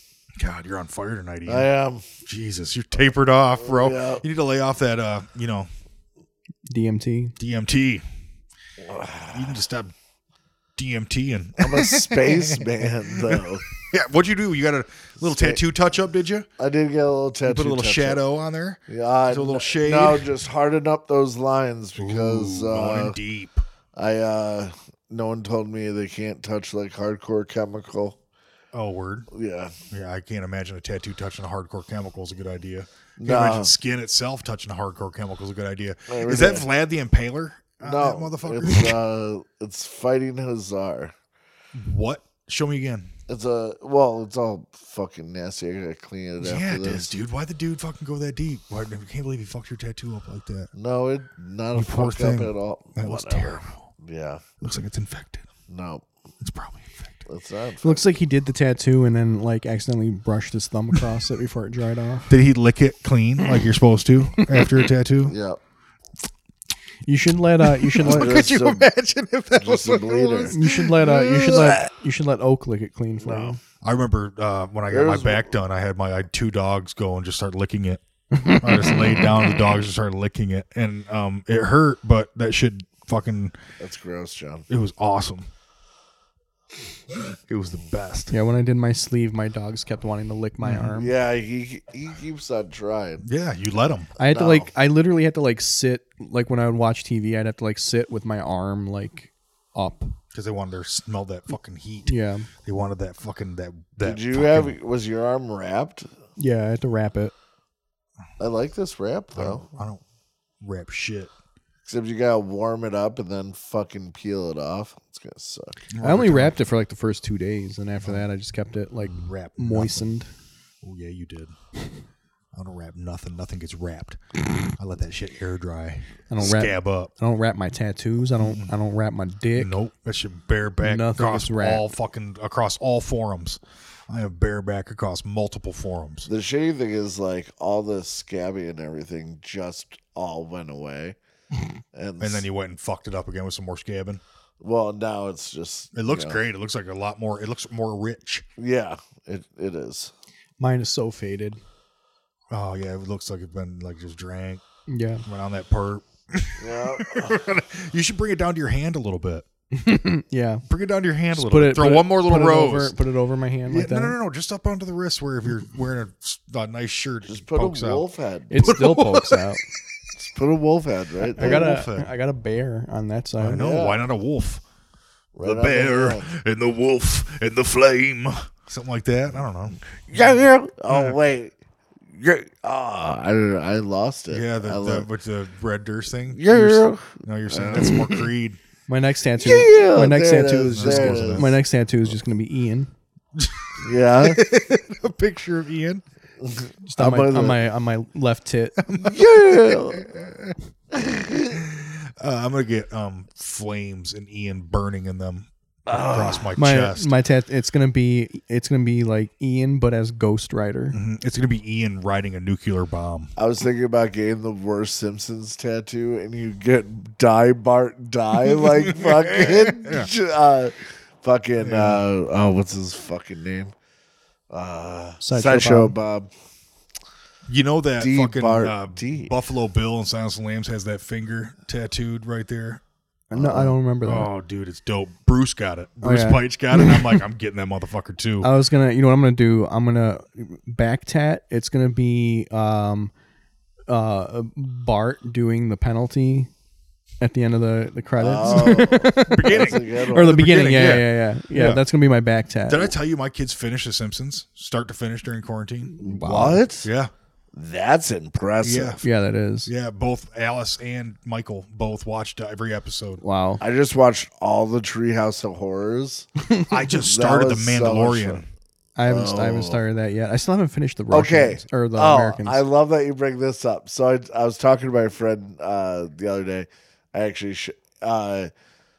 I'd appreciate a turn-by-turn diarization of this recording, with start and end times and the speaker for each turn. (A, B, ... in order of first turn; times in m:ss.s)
0:00.4-0:01.7 A
0:01.5-0:02.0 B
0:02.2-0:05.7 A
0:03.6-0:04.2 B
0:06.7-0:07.4 C
0:07.4-0:08.0 A
0:08.8-0:09.6 B
0:09.3-0:09.9 A
0:10.8-0:12.6 A
0:11.6-0:13.6 B
0:13.3-0:16.5 A
0:15.2-0:15.6 B
0:16.6-0:18.2 B
0:17.5-0:20.2 A
0:18.9-0:23.2 B
0:22.0-0:23.6 A
0:24.0-0:28.2 B
0:28.7-0:29.3 A
0:29.3-0:29.7 B
0:29.9-0:39.0 A
0:33.2-0:33.7 B
0:36.1-0:36.7 B
0:37.8-0:41.1 B
0:41.8-0:43.1 A
0:43.3-0:47.1 B
0:46.4-0:50.7 A
0:50.8-0:54.4 B
0:51.7-0:53.9 A
0:54.6-0:55.4 A
0:55.7-0:56.0 B
0:56.4-0:57.3 A
0:57.3-0:58.0 B
0:57.8-1:02.3 C
1:02.3-1:05.4 A
1:04.4-1:04.8 C
1:05.2-1:05.6 B
1:07.0-1:08.4 C
1:07.8-1:11.8 A
1:08.0-1:08.9 B
1:09.6-1:10.6 B
1:10.5-1:13.6 C
1:13.2-1:13.6 B
1:13.8-1:23.6 A
1:14.9-1:15.5 B
1:18.3-1:19.7 C
1:23.8-1:24.7 B
1:24.7-1:25.5 A
1:27.1-1:28.3 A
1:28.3-1:31.1 C
1:30.6-1:31.0 A
1:31.0-1:33.2 B
1:33.2-1:34.1 A
1:34.2-1:40.1 C
1:34.2-1:34.7 B
1:40.3-1:42.1 A
1:42.1-1:42.5 C
1:42.6-1:44.7 A
1:44.0-1:46.1 B
1:46.4-1:47.3 C
1:48.4-1:49.7 B
1:49.4-1:50.0 A
1:50.6-1:51.3 A
1:51.9-1:55.8 B
1:55.9-1:56.5 A
1:56.0-2:00.3 C
1:59.0-2:00.1 A
2:00.8-2:01.5 A
2:02.5-2:07.1 A
2:06.3-2:09.7 C
2:08.4-2:08.7 A
2:09.6-2:16.3 A
2:10.8-2:11.9 C
2:16.3-2:21.2 B
2:21.9-2:22.4 B
2:22.2-2:24.2 A
2:24.6-2:26.4 B
2:25.9-2:28.4 A
2:28.6-2:30.1 B
2:30.6-2:31.6 C
2:32.5-2:34.6 A
2:34.9-2:35.2 C
2:35.3-2:39.5 A
2:36.6-2:37.4 B
2:39.7-2:40.6 C
2:40.7-2:42.9 A
2:41.3-2:44.2 C
2:43.7-2:48.0 A
2:47.3-2:48.7 B
2:48.5-2:49.6 C
2:48.6-2:49.4 A
2:50.2-2:51.7 B
2:51.4-2:53.7 C
2:51.4-2:52.1 A
2:53.4-2:54.6 A
2:53.5-2:54.0 B
2:55.3-2:56.3 B
2:55.4-3:00.3 A
3:00.1-3:01.5 B
3:00.9-3:01.2 A
3:02.1-3:05.1 B
3:04.3-3:08.6 A
3:06.3-3:08.3 B
3:08.9-3:12.9 C
3:09.4-3:11.5 B
3:10.7-3:11.6 A
3:13.4-3:16.0 A
3:13.8-3:14.4 B
3:16.4-3:17.6 B
3:16.8-3:18.8 C
3:18.8-3:20.6 A
3:19.0-3:20.1 B
3:20.9-3:21.6 B
3:21.5-3:27.1 A
3:25.9-3:26.5 B
3:26.6-3:31.0 C
3:30.9-3:33.3 A
3:33.4-3:43.7 B
3:39.0-3:40.1 A
3:41.6-3:42.0 A
3:44.5-3:46.3 B
3:45.2-3:46.0 C
3:47.5-3:52.8 A
3:48.0-3:49.3 B
3:53.3-3:54.3 C
3:53.3-3:53.7 B
3:54.0-3:58.5 A
3:56.0-3:57.2 C
3:58.4-4:03.1 C
4:03.9-4:06.5 C
4:07.2-4:12.9 C
4:08.2-4:10.4 B
4:08.5-4:11.8 A
4:12.7-4:16.0 A
4:16.0-4:16.6 C
4:16.0-4:16.9 B
4:16.8-4:17.1 A
4:17.5-4:19.0 B
4:18.6-4:19.0 A
4:19.0-4:19.7 C
4:19.7-4:23.2 A
4:23.2-4:23.6 C
4:23.6-4:26.3 B
4:26.7-4:28.5 A
4:27.0-4:28.4 B
4:29.0-4:32.6 C
4:29.1-4:29.8 B
4:31.1-4:38.5 B